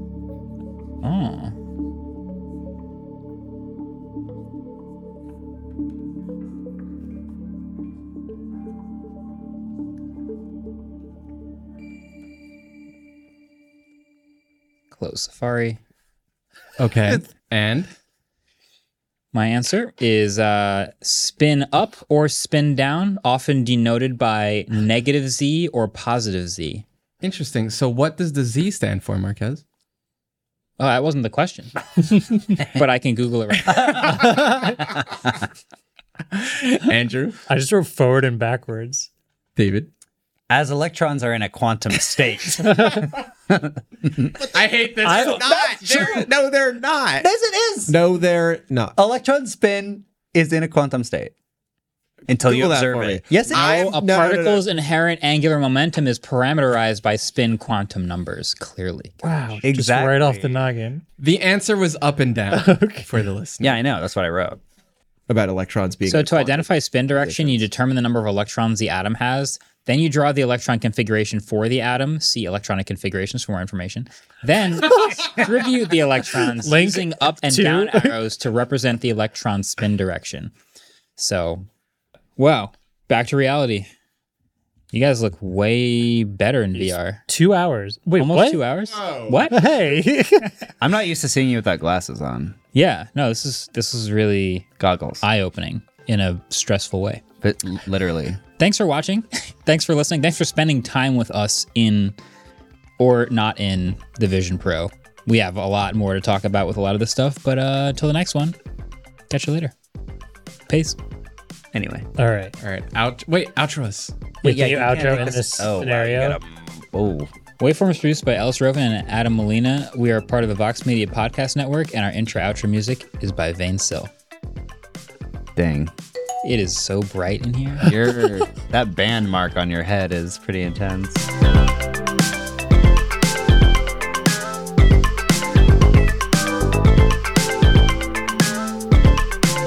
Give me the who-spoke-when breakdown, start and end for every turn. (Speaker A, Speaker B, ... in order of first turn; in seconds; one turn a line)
Speaker A: 1.0-1.5
Speaker A: 14.9-15.8
Speaker B: 16.8-17.9
Speaker A: 19.3-26.8
Speaker B: 27.2-29.6
Speaker A: 30.8-31.7
Speaker A: 32.6-34.1
Speaker C: 33.7-34.9
Speaker D: 34.1-34.8
Speaker B: 36.3-37.4
Speaker D: 37.5-39.1
Speaker B: 39.5-39.9
Speaker C: 40.5-44.3
Speaker D: 42.6-43.0
Speaker E: 44.4-47.3
Speaker B: 44.5-46.1
Speaker D: 45.0-45.4
Speaker C: 47.2-48.0
Speaker E: 47.9-49.0
Speaker C: 49.0-51.3
Speaker C: 52.3-53.8
Speaker E: 52.3-54.6
Speaker A: 53.5-59.2
Speaker D: 59.2-61.0
Speaker C: 59.6-60.6
Speaker B: 61.2-63.8
Speaker D: 62.5-63.1
Speaker C: 63.6-64.6
Speaker E: 65.3-67.7
Speaker A: 66.0-80.5
Speaker D: 76.6-78.2
Speaker A: 81.2-81.7
Speaker A: 82.4-83.9
Speaker A: 84.9-87.2
Speaker D: 86.9-88.6
Speaker A: 88.2-89.6
Speaker E: 88.9-89.5
Speaker D: 89.5-90.5
Speaker C: 90.8-92.6
Speaker A: 92.7-94.7
Speaker C: 94.8-95.2
Speaker A: 95.2-97.2
Speaker C: 97.4-98.4
Speaker A: 98.6-102.2
Speaker A: 103.0-108.5
Speaker A: 109.3-109.7
Speaker A: 110.7-111.0
Speaker C: 111.7-112.0
Speaker D: 112.2-112.5
Speaker B: 112.6-114.3
Speaker D: 114.4-116.4
Speaker C: 114.4-117.3
Speaker A: 117.6-124.1
Speaker C: 125.5-125.9
Speaker A: 126.4-127.9
Speaker C: 127.8-131.3